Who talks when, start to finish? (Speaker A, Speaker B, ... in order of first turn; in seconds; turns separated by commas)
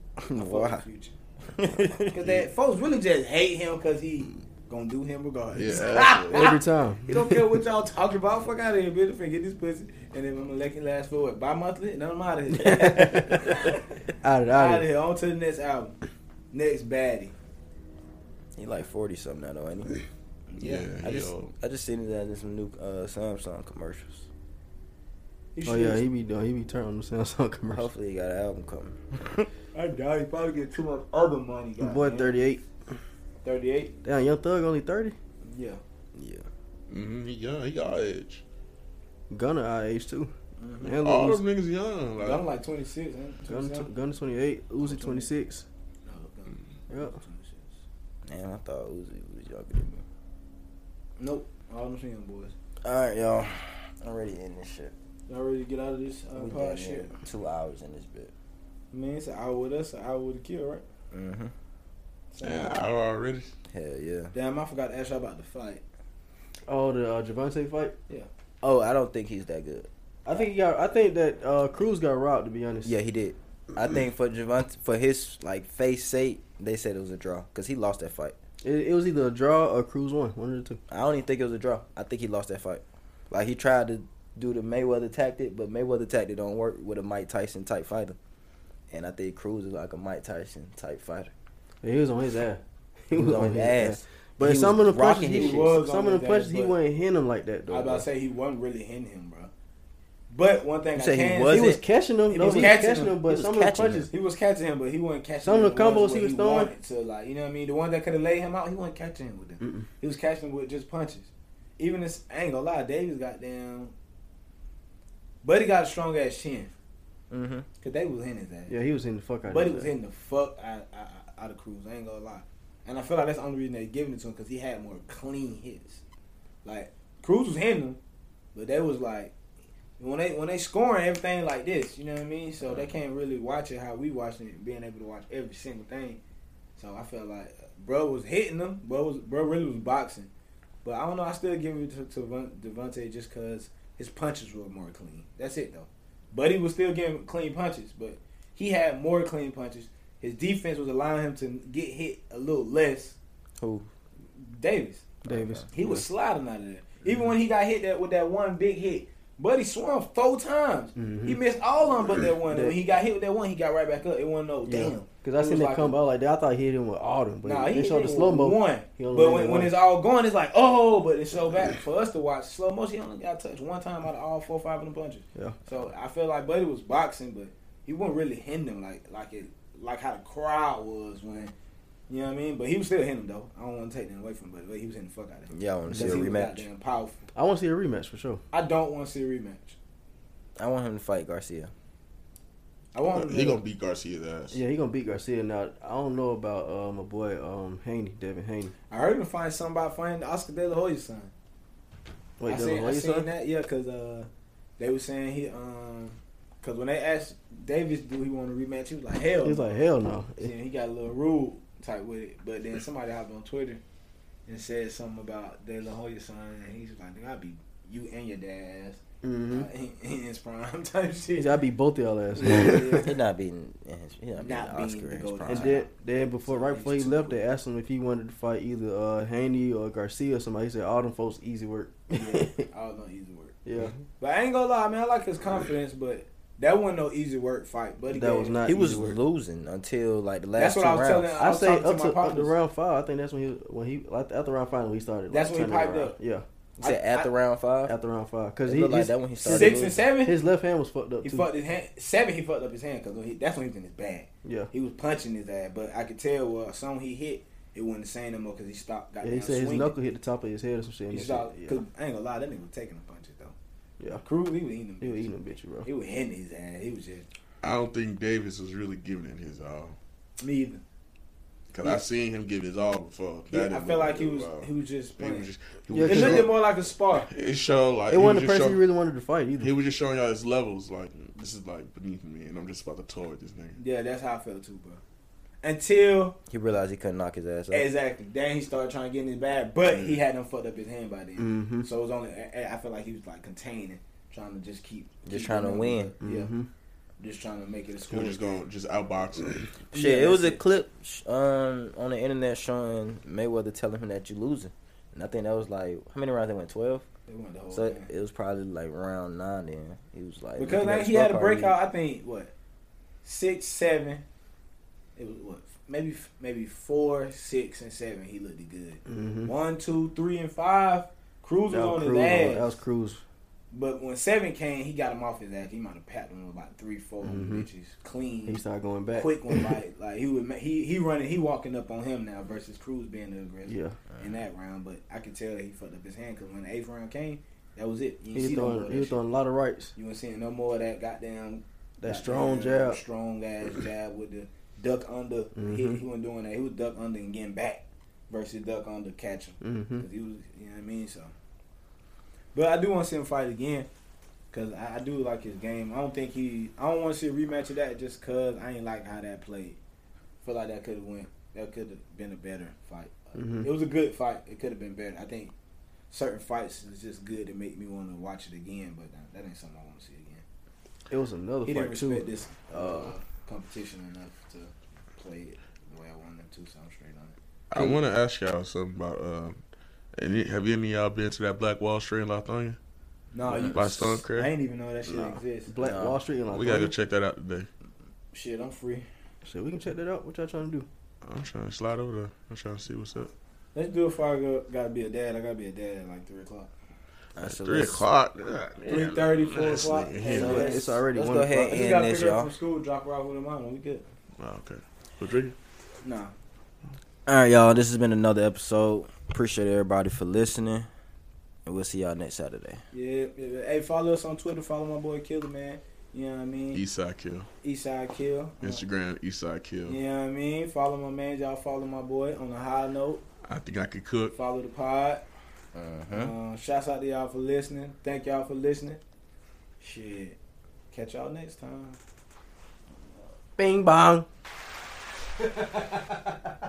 Speaker A: 0.2-0.8, Speaker B: 0.3-1.1, Speaker A: 1.5-2.1, Speaker B: 2.1-13.8, Speaker C: 2.2-2.5, Speaker C: 5.5-6.5, Speaker D: 6.3-7.5, Speaker D: 12.6-13.5, Speaker D: 14.2-14.9, Speaker B: 14.5-15.9, Speaker B: 16.5-17.4, Speaker A: 18.6-20.0, Speaker B: 20.5-20.9, Speaker C: 20.6-21.5, Speaker A: 21.0-24.3, Speaker B: 25.6-26.1, Speaker D: 25.6-27.9, Speaker A: 27.7-29.5, Speaker B: 29.7-32.4, Speaker D: 31.8-32.7, Speaker B: 33.4-33.9, Speaker D: 34.0-35.2, Speaker B: 35.4-35.8, Speaker A: 36.1-36.5, Speaker C: 36.9-38.4, Speaker D: 39.3-41.4, Speaker B: 40.6-41.0, Speaker C: 41.0-42.4, Speaker B: 42.2-43.9, Speaker D: 43.5-45.7, Speaker B: 44.8-45.3, Speaker B: 46.1-47.8, Speaker D: 46.9-47.2, Speaker A: 48.3-50.0, Speaker B: 51.2-52.5, Speaker A: 52.8-54.9, Speaker B: 55.3-57.1, Speaker A: 56.4-58.3, Speaker B: 58.9-60.8, Speaker A: 61.1-61.5, Speaker B: 62.3-62.8, Speaker C: 62.4-63.5, Speaker A: 63.7-64.3, Speaker B: 64.3-65.8, Speaker D: 66.7-68.0, Speaker A: 68.6-69.9, Speaker D: 70.2-72.9, Speaker A: 72.8-78.4, Speaker D: 78.6-80.8, Speaker A: 80.9-88.2, Speaker A: 88.9-91.3, Speaker D: 91.8-98.1, Speaker A: 93.1-95.8, Speaker B: 95.3-96.8, Speaker B: 97.7-99.5, Speaker B: 100.3-103.2, Speaker A: 101.0-101.8, Speaker D: 101.5-104.1, Speaker A: 103.2-104.1, Speaker B: 104.1-113.9, Speaker D: 105.4-106.7, Speaker B: 115.4-116.7, Speaker A: 117.3-117.7, Speaker B: 117.8-118.7, Speaker D: 118.7-119.9, Speaker B: 119.5-126.0, Speaker B: 126.6-128.0, Speaker B: 128.6-129.3, Speaker B: 130.0-136.2, Speaker A: 132.6-132.9, Speaker B: 136.8-140.3, Speaker B: 140.8-153.2, Speaker A: 153.6-153.9, Speaker B: 154.4-155.2, Speaker D: 155.2-156.0, Speaker A: 155.3-155.7, Speaker B: 155.7-166.0, Speaker D: 161.0-161.4, Speaker D: 162.5-162.8, Speaker D: 164.7-169.8, Speaker B: 167.4-181.5, Speaker B: 182.1-187.3, Speaker A: 185.5-186.7, Speaker D: 185.9-186.3, Speaker D: 187.3-188.4, Speaker B: 188.5-189.8, Speaker A: 190.6-191.7, Speaker B: 192.9-193.6, Speaker C: 193.1-194.6, Speaker D: 194.5-198.7, Speaker B: 198.9-201.3, Speaker D: 202.4-203.3, Speaker B: 202.4-209.8, Speaker D: 209.4-210.5, Speaker B: 210.4-213.8, Speaker B: 214.5-221.6, Speaker D: 219.2-219.7, Speaker D: 221.4-223.1, Speaker B: 222.3-223.2, Speaker A: 222.8-225.8, Speaker B: 224.4-227.4, Speaker D: 225.5-232.6, Speaker B: 232.1-233.6, Speaker D: 233.7-233.9, Speaker B: 234.2-238.6, Speaker D: 238.1-239.2, Speaker A: 238.7-241.3, Speaker B: 240.6-242.6, Speaker D: 241.4-246.5, Speaker B: 245.3-246.2, Speaker A: 246.8-248.0, Speaker B: 246.8-247.3, Speaker D: 247.9-251.5, Speaker A: 248.7-250.0, Speaker B: 249.4-250.4, Speaker B: 251.2-259.9, Speaker D: 254.4-254.7, Speaker D: 259.2-261.8, Speaker B: 261.1-263.6, Speaker B: 264.2-265.3, Speaker D: 265.0-265.9, Speaker B: 265.8-267.3, Speaker C: 267.6-270.0, Speaker B: 270.4-270.8, Speaker C: 271.7-276.6, Speaker B: 273.5-275.5, Speaker D: 275.9-276.5, Speaker B: 276.0-277.3, Speaker C: 277.3-278.8, Speaker D: 278.1-279.7, Speaker C: 279.6-283.8, Speaker B: 283.8-285.0, Speaker B: 285.6-286.4, Speaker A: 286.5-287.9, Speaker B: 287.7-296.5, Speaker C: 289.9-290.2, Speaker D: 291.4-291.9, Speaker A: 295.2-296.1, Speaker D: 296.2-296.7, Speaker B: 297.2-298.4, Speaker C: 298.1-299.8, Speaker B: 299.9-300.6, Speaker A: 299.9-307.1, Speaker B: 307.3-308.1, Speaker A: 307.7-311.8, Speaker B: 310.6-312.5, Speaker B: 313.2-314.2, Speaker B: 315.2-322.8, Speaker D: 319.1-319.5, Speaker D: 321.7-323.2, Speaker B: 323.7-328.6, Speaker D: 327.2-327.7, Speaker D: 328.5-329.8, Speaker B: 329.1-339.2, Speaker D: 333.7-334.0, Speaker D: 338.3-339.9, Speaker B: 339.9-351.3, Speaker D: 342.0-343.0, Speaker D: 345.6-346.0, Speaker D: 349.6-350.0, Speaker B: 352.6-353.9, Speaker B: 354.5-359.8, Speaker B: 360.4-365.5, Speaker D: 363.4-363.7, Speaker B: 366.1-370.4, Speaker D: 371.1-373.1, Speaker B: 371.6-377.4, Speaker C: 377.7-379.6, Speaker C: 380.2-382.8, Speaker B: 383.3-385.7, Speaker C: 383.5-384.5, Speaker D: 385.7-386.9, Speaker A: 385.8-386.2, Speaker C: 386.5-387.7, Speaker B: 388.3-389.1, Speaker D: 389.4-390.9, Speaker C: 391.2-393.3, Speaker B: 393.8-396.7, Speaker A: 397.4-398.1, Speaker C: 397.4-400.7, Speaker B: 398.9-401.0, Speaker A: 400.2-402.5, Speaker D: 400.3-401.7, Speaker B: 401.5-404.1, Speaker C: 404.4-405.6, Speaker B: 406.0-406.3, Speaker A: 407.3-410.9, Speaker A: 411.7-412.8, Speaker B: 412.9-416.8, Speaker C: 416.7-417.5, Speaker B: 417.6-418.8, Speaker C: 418.6-420.0, Speaker B: 419.9-423.2, Speaker C: 423.4-424.4, Speaker B: 424.3-425.2, Speaker A: 425.8-426.3, Speaker B: 426.1-429.0, Speaker B: 429.8-430.4, Speaker B: 430.9-432.0, Speaker D: 433.6-434.3, Speaker D: 435.4-436.3